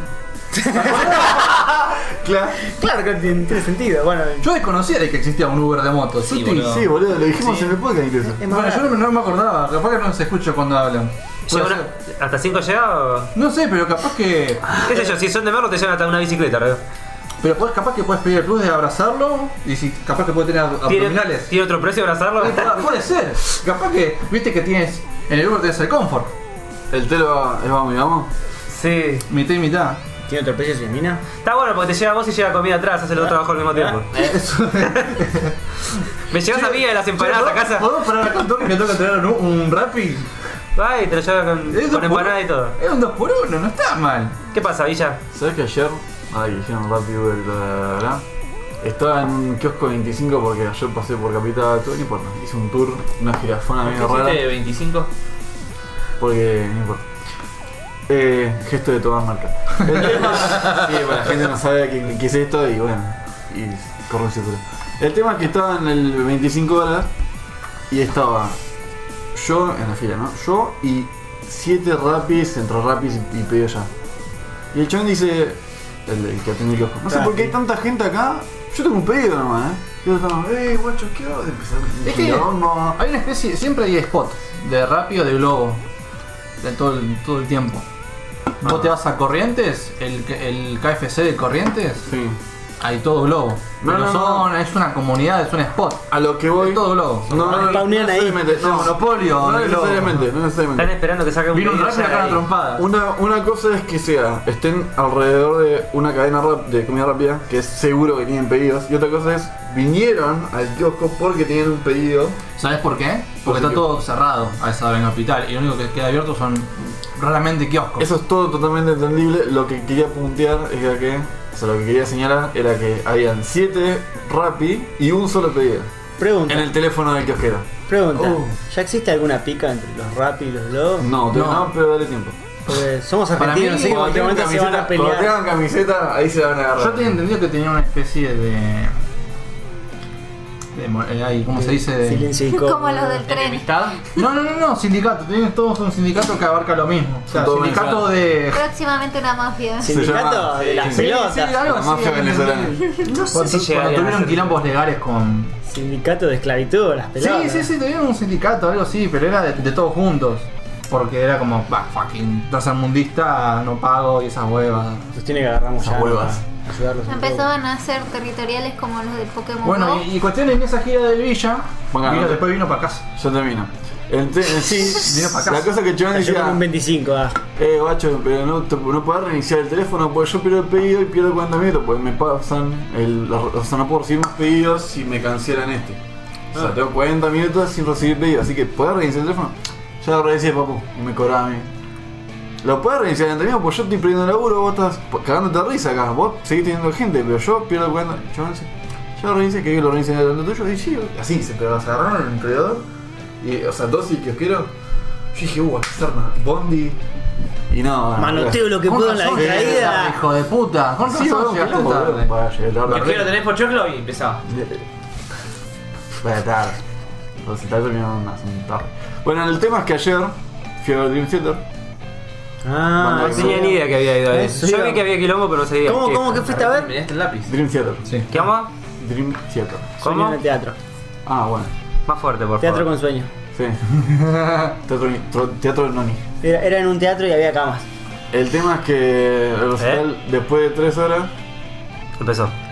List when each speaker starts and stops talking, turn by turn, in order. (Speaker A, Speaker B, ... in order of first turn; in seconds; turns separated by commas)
Speaker A: 0.5-1.5, Speaker B: 0.7-1.5, Speaker C: 1.3-2.6, Speaker A: 2.6-4.5, Speaker B: 4.4-6.8, Speaker D: 6.2-7.7, Speaker C: 6.6-8.4, Speaker A: 8.3-8.9, Speaker B: 8.4-11.9, Speaker E: 11.5-13.3, Speaker B: 13.3-14.8, Speaker E: 14.8-16.8, Speaker B: 17.4-21.5, Speaker E: 20.9-22.9, Speaker B: 22.4-26.3, Speaker C: 26.9-28.3, Speaker E: 28.7-29.2, Speaker B: 29.3-30.0, Speaker A: 30.3-31.2, Speaker E: 31.4-35.2, Speaker A: 33.7-34.0, Speaker B: 34.1-40.3, Speaker E: 36.1-37.9, Speaker E: 40.8-42.8, Speaker B: 41.7-44.4, Speaker E: 44.5-45.2, Speaker C: 45.3-48.2, Speaker C: 48.8-54.5, Speaker D: 53.9-55.1, Speaker C: 56.2-57.0, Speaker C: 58.1-67.1, Speaker C: 67.9-68.6, Speaker C: 69.3-73.9, Speaker C: 74.7-83.0, Speaker A: 77.1-77.5, Speaker B: 82.0-85.8, Speaker B: 86.6-87.8, Speaker B: 88.6-92.0, Speaker C: 88.6-88.9, Speaker C: 92.0-92.4, Speaker B: 92.8-100.2, Speaker C: 93.8-94.5, Speaker C: 96.1-100.9, Speaker A: 97.4-98.4, Speaker E: 100.8-102.4, Speaker B: 101.5-102.8, Speaker C: 102.8-112.4, Speaker B: 112.6-118.1, Speaker C: 113.4-113.9, Speaker C: 118.0-125.9, Speaker A: 126.2-126.7, Speaker C: 126.5-128.5, Speaker A: 127.9-131.1, Speaker C: 131.0-132.4, Speaker B: 131.3-131.7, Speaker A: 132.7-135.3, Speaker B: 133.4-134.2, Speaker C: 133.7-137.2, Speaker B: 136.8-138.9, Speaker B: 140.7-142.3, Speaker A: 141.5-143.2, Speaker F: 142.5-143.7, Speaker D: 143.3-144.0, Speaker B: 144.1-148.6, Speaker C: 147.3-148.1, Speaker F: 148.5-150.1, Speaker A: 149.8-151.6, Speaker C: 149.8-152.8, Speaker B: 150.8-155.5, Speaker E: 153.1-154.6, Speaker A: 155.6-157.7, Speaker B: 157.2-165.1, Speaker A: 165.1-167.5, Speaker C: 165.8-166.4, Speaker F: 167.1-170.1, Speaker B: 169.6-173.0, Speaker C: 171.9-172.4, Speaker C: 173.1-176.6, Speaker B: 174.9-175.7, Speaker A: 176.1-177.4, Speaker C: 177.6-186.0, Speaker C: 186.5-191.7, Speaker C: 192.6-202.8, Speaker C: 203.4-204.7, Speaker C: 205.3-207.0, Speaker C: 207.7-208.8, Speaker A: 208.2-210.2, Speaker B: 208.8-212.3, Speaker C: 209.3-210.1, Speaker C: 211.0-213.3, Speaker D: 212.9-214.4, Speaker C: 214.5-214.8, Speaker C: 216.2-216.8, Speaker C: 217.4-221.6, Speaker A: 222.6-225.0, Speaker C: 223.0-223.7, Speaker E: 223.2-226.4, Speaker A: 225.8-226.9, Speaker D: 226.3-227.5, Speaker C: 227.4-228.1, Speaker E: 228.3-228.7, Speaker C: 229.0-229.9, Speaker A: 230.0-230.8, Speaker E: 230.0-230.4, Speaker C: 231.2-231.7, Speaker E: 232.1-232.9, Speaker A: 232.6-233.3, Speaker C: 233.5-233.9, Speaker B: 234.0-234.7, Speaker C: 234.8-236.2, Speaker A: 236.4-237.9, Speaker C: 238.3-241.3, Speaker E: 239.8-240.0, Speaker E: 242.2-242.5